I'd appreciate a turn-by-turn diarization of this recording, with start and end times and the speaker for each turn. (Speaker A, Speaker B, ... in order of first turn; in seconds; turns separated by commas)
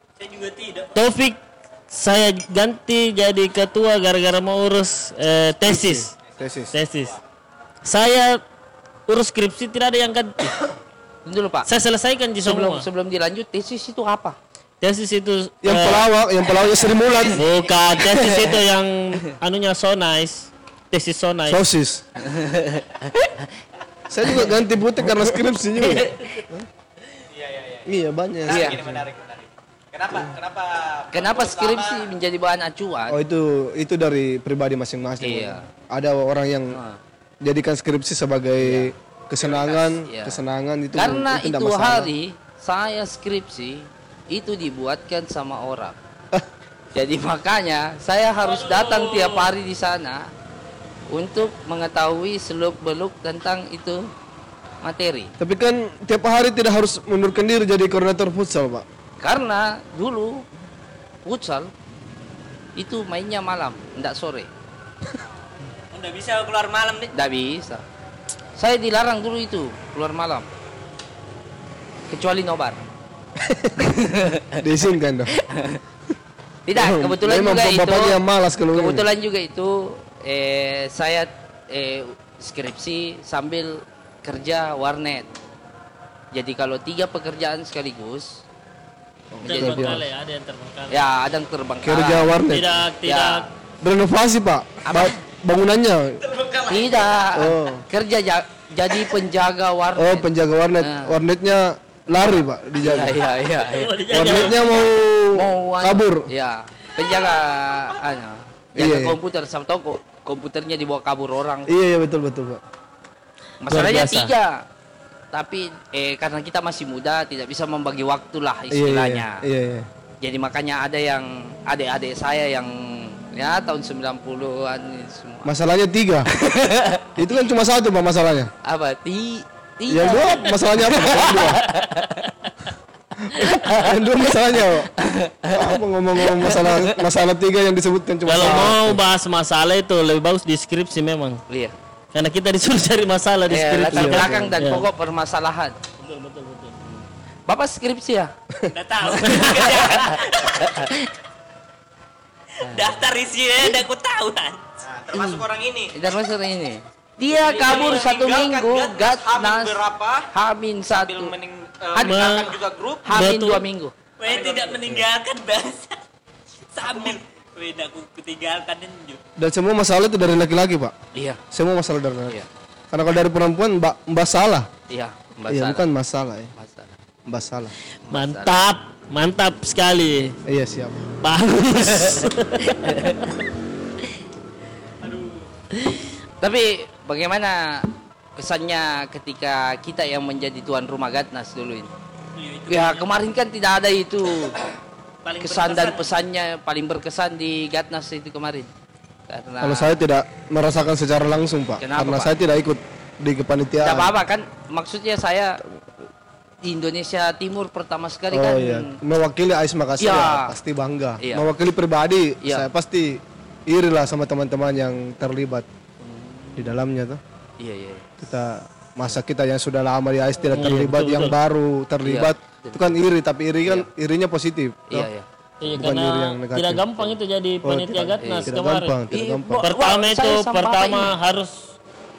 Speaker A: 0.2-1.0, Speaker B: 0.9-6.1, Speaker C: 5.7-6.7, Speaker B: 6.7-7.2, Speaker B: 7.8-8.4, Speaker B: 9.1-10.6, Speaker D: 11.3-11.7, Speaker B: 11.7-12.9, Speaker D: 12.4-14.4, Speaker B: 14.8-16.1, Speaker C: 15.6-17.4, Speaker B: 17.3-21.6, Speaker C: 21.5-22.1, Speaker D: 22.2-23.5, Speaker C: 24.1-26.7, Speaker D: 25.8-26.2, Speaker E: 27.3-27.9, Speaker C: 27.9-29.1, Speaker E: 28.4-32.1, Speaker D: 28.5-28.8, Speaker D: 31.1-33.2, Speaker C: 33.1-36.8, Speaker D: 35.2-35.6, Speaker D: 36.7-37.0, Speaker C: 37.4-42.1, Speaker D: 38.6-38.9, Speaker E: 39.4-39.9, Speaker D: 40.0-40.4, Speaker D: 41.0-46.0, Speaker D: 47.0-50.3, Speaker B: 48.4-49.5, Speaker D: 51.1-54.1, Speaker D: 54.8-55.3, Speaker C: 55.4-58.9, Speaker D: 59.2-60.4, Speaker D: 61.3-61.7, Speaker D: 62.8-64.5, Speaker A: 65.9-67.1, Speaker D: 67.1-67.8, Speaker D: 68.6-70.5, Speaker D: 72.1-72.8, Speaker C: 73.4-73.7, Speaker D: 73.8-74.6, Speaker C: 74.6-75.3, Speaker D: 75.4-75.8, Speaker D: 76.7-78.2, Speaker C: 76.8-79.1, Speaker D: 78.7-85.3, Speaker D: 86.3-88.4, Speaker C: 89.3-90.0, Speaker D: 89.4-90.0, Speaker B: 89.5-91.0, Speaker D: 90.9-92.3, Speaker C: 91.8-92.8, Speaker B: 92.5-93.5, Speaker D: 93.0-93.5, Speaker C: 93.8-96.3, Speaker D: 94.8-95.2, Speaker D: 96.7-100.3, Speaker C: 97.3-97.8, Speaker C: 100.0-103.2, Speaker D: 100.8-101.2, Speaker D: 102.8-111.7, Speaker B: 103.6-104.7, Speaker C: 104.1-106.3, Speaker C: 108.8-109.2, Speaker C: 111.7-112.6, Speaker D: 113.6-114.7, Speaker B: 113.7-114.3, Speaker D: 115.3-119.4, Speaker C: 118.7-119.9, Speaker D: 120.2-125.5, Speaker C: 125.5-126.3, Speaker D: 126.3-127.2, Speaker C: 127.2-128.5, Speaker D: 128.6-132.3, Speaker C: 129.9-131.7, Speaker C: 133.2-134.9, Speaker D: 133.5-133.8, Speaker D: 135.0-137.1, Speaker C: 135.5-139.0, Speaker B: 138.3-141.4, Speaker B: 142.1-144.9, Speaker D: 143.5-145.8, Speaker C: 143.9-144.6, Speaker B: 146.0-146.8, Speaker D: 146.9-148.3, Speaker A: 148.7-150.9, Speaker D: 149.0-151.1, Speaker A: 152.6-154.6, Speaker D: 152.6-153.0, Speaker E: 154.8-155.9, Speaker D: 155.1-161.3, Speaker A: 157.4-158.0, Speaker E: 157.5-160.3, Speaker E: 160.9-163.1, Speaker D: 161.9-162.5, Speaker B: 162.0-162.5, Speaker D: 163.1-163.9, Speaker B: 163.1-163.6, Speaker A: 164.2-166.0, Speaker E: 164.2-165.0, Speaker A: 166.7-169.2, Speaker E: 166.8-167.2, Speaker C: 169.4-170.9, Speaker D: 171.1-171.4, Speaker C: 171.5-172.4, Speaker C: 172.9-174.7, Speaker D: 174.9-175.9, Speaker C: 175.5-176.5, Speaker D: 176.6-177.0, Speaker C: 177.3-177.7, Speaker D: 178.1-178.6, Speaker B: 178.1-180.4, Speaker C: 180.5-181.0, Speaker B: 181.2-183.3, Speaker D: 182.8-183.1, Speaker A: 185.0-185.4, Speaker D: 186.4-191.9, Speaker A: 192.4-193.1, Speaker D: 192.7-194.6, Speaker A: 195.2-196.2, Speaker D: 195.4-198.7, Speaker D: 199.3-200.0, Speaker C: 199.6-204.1, Speaker D: 201.8-202.3, Speaker D: 203.8-205.6, Speaker D: 206.6-209.0, Speaker C: 208.3-215.7, Speaker D: 210.0-210.6, Speaker D: 211.2-211.5, Speaker D: 216.0-216.8, Speaker C: 216.6-217.2, Speaker D: 217.6-218.1, Speaker C: 218.2-225.1, Speaker B: 220.6-221.3, Speaker D: 222.0-222.9, Speaker D: 224.9-225.2, Speaker B: 225.6-228.9, Speaker C: 225.7-227.1, Speaker C: 227.6-229.7, Speaker D: 228.2-228.5, Speaker D: 229.1-231.1, Speaker B: 229.6-231.7